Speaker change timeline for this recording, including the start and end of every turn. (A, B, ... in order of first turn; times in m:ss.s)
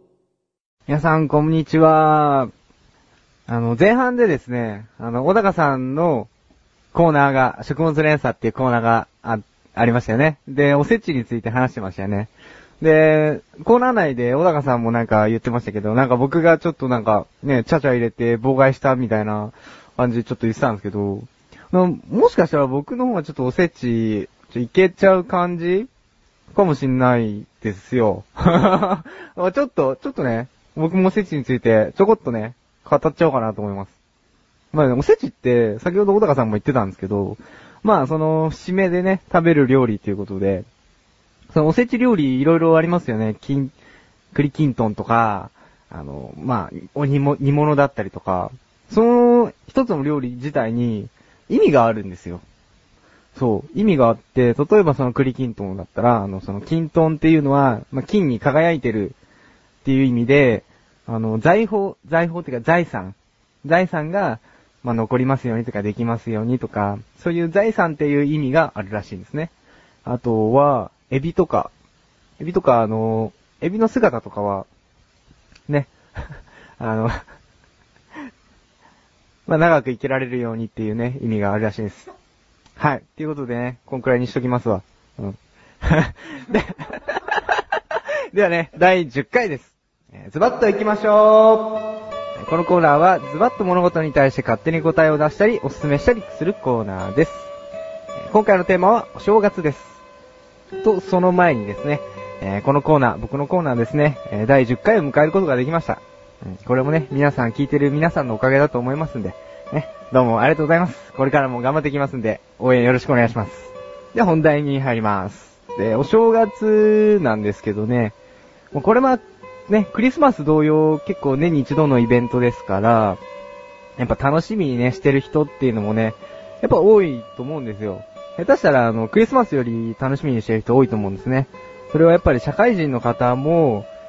0:00.9-0:02.5 A
0:03.5-0:06.3 A
0:06.9-0:25.9 A
0:26.5-0:34.0 A
0:34.7-0:40.7 A
0:41.5-0:43.7 A
0:44.3-0:52.4 A
0:53.4-0:59.2 A
0:59.8-1:09.5 A
1:10.0-1:11.7 A
1:12.4-1:14.7 A
1:16.8-1:17.2 A
1:19.5-1:22.1 A
1:22.8-1:27.4 A
1:28.3-1:31.7 A
1:32.4-1:37.5 A
1:38.2-1:40.0 A
1:40.8-1:58.2 A
1:58.7-2:03.2 A
2:04.0-2:13.9 A